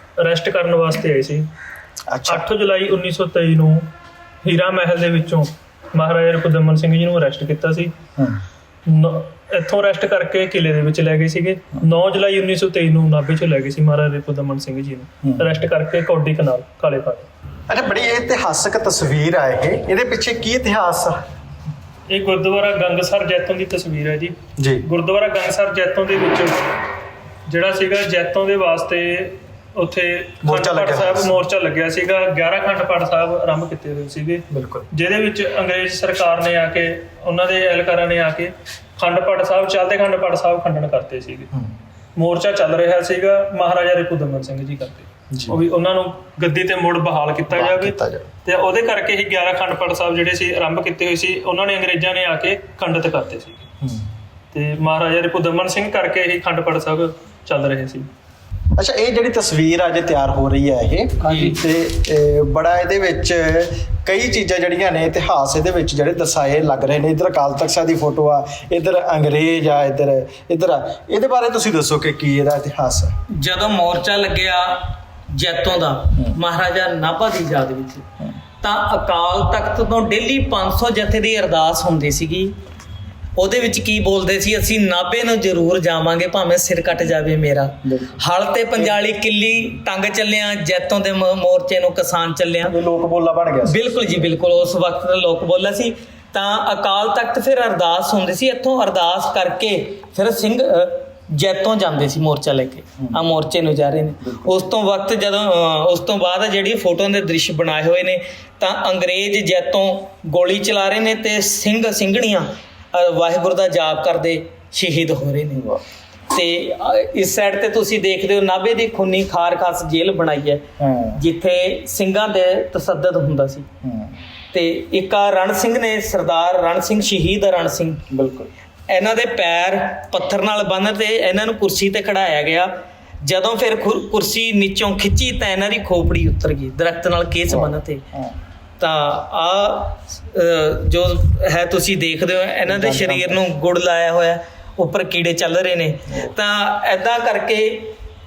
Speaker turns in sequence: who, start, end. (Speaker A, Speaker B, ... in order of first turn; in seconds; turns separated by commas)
Speaker A: 0.2-1.5, Speaker B: 2.1-2.5, Speaker A: 2.2-3.9, Speaker A: 4.4-7.9, Speaker A: 8.9-17.3, Speaker B: 15.2-15.5, Speaker B: 17.7-21.2, Speaker A: 22.1-26.6, Speaker B: 24.6-24.9, Speaker A: 27.5-41.5, Speaker B: 30.4-31.3, Speaker B: 34.5-34.9, Speaker A: 42.2-53.7, Speaker B: 45.3-45.6, Speaker B: 47.5-48.3, Speaker B: 53.8-54.2, Speaker A: 54.5-58.1, Speaker B: 58.8-73.1, Speaker C: 61.2-61.5, Speaker C: 73.3-78.1, Speaker C: 78.6-82.5, Speaker C: 83.4-92.7, Speaker B: 87.8-88.2, Speaker B: 92.7-94.3, Speaker C: 93.7-115.7, Speaker B: 104.2-104.6, Speaker C: 116.3-123.7, Speaker B: 120.8-121.2, Speaker B: 123.8-124.2, Speaker C: 124.5-128.0, Speaker B: 128.1-128.5, Speaker C: 128.9-138.0, Speaker B: 137.5-138.3, Speaker C: 138.8-147.9, Speaker B: 142.7-143.4, Speaker B: 146.1-146.3